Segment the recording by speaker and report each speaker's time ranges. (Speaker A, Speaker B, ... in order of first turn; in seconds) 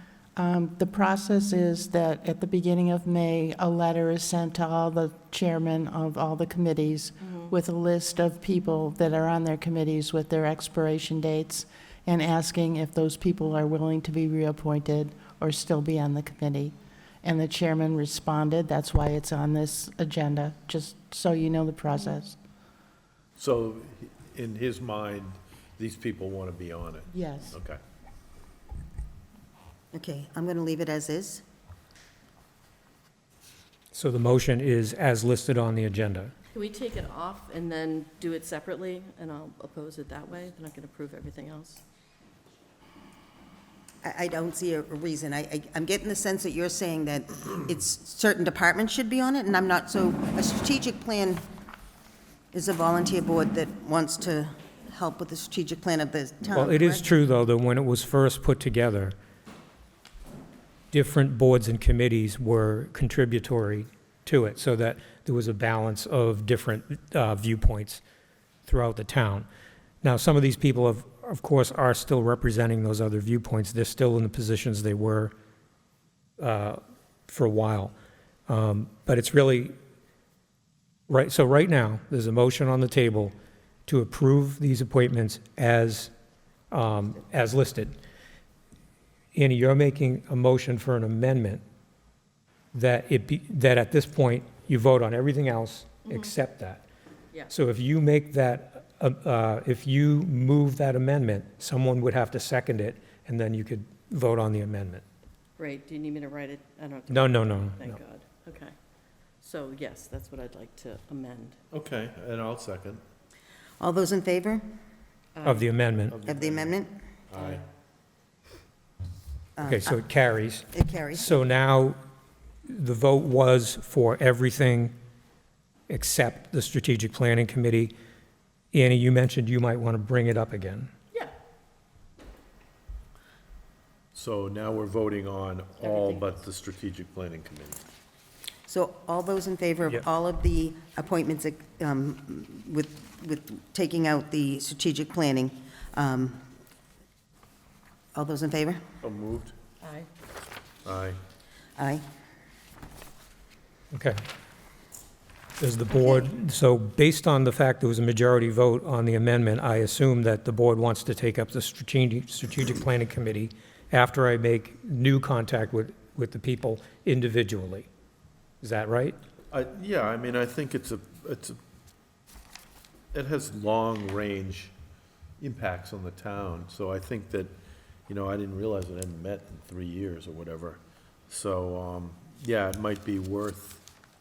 Speaker A: 0.4-22.4, 27.1-27.6
Speaker B: 7.2-7.5, 36.5-41.8, 96.0-96.3, 105.6-108.7, 109.4-111.6, 115.4-115.7, 135.8-136.4, 149.8-150.1
Speaker C: 23.4-27.8, 111.7-113.0, 116.1-116.8, 117.3-117.6, 134.1-137.8, 149.0-149.6, 150.8-151.2, 169.5-171.6, 173.1-174.7, 175.4-177.5, 178.1-183.8
Speaker D: 29.9-31.4, 44.0-51.4, 52.5-57.1, 113.8-114.7, 116.2-117.0, 119.6-120.1, 120.7-121.3, 138.7-146.4, 148.2-148.8, 151.8-152.0, 156.0-156.3
Speaker E: 33.9-36.3, 56.5-59.1, 60.9-68.0, 68.7-69.5, 70.0-75.3, 76.4-77.9, 78.5-79.8, 81.1-83.3, 83.9-86.1, 86.7-88.0, 89.3-91.6, 92.7-96.8, 97.5-105.0, 107.1-108.0, 115.4-116.2, 119.7-122.0, 122.7-124.9, 125.9-127.9, 128.7-130.9, 153.9-154.2, 155.6-167.9, 168.6-169.2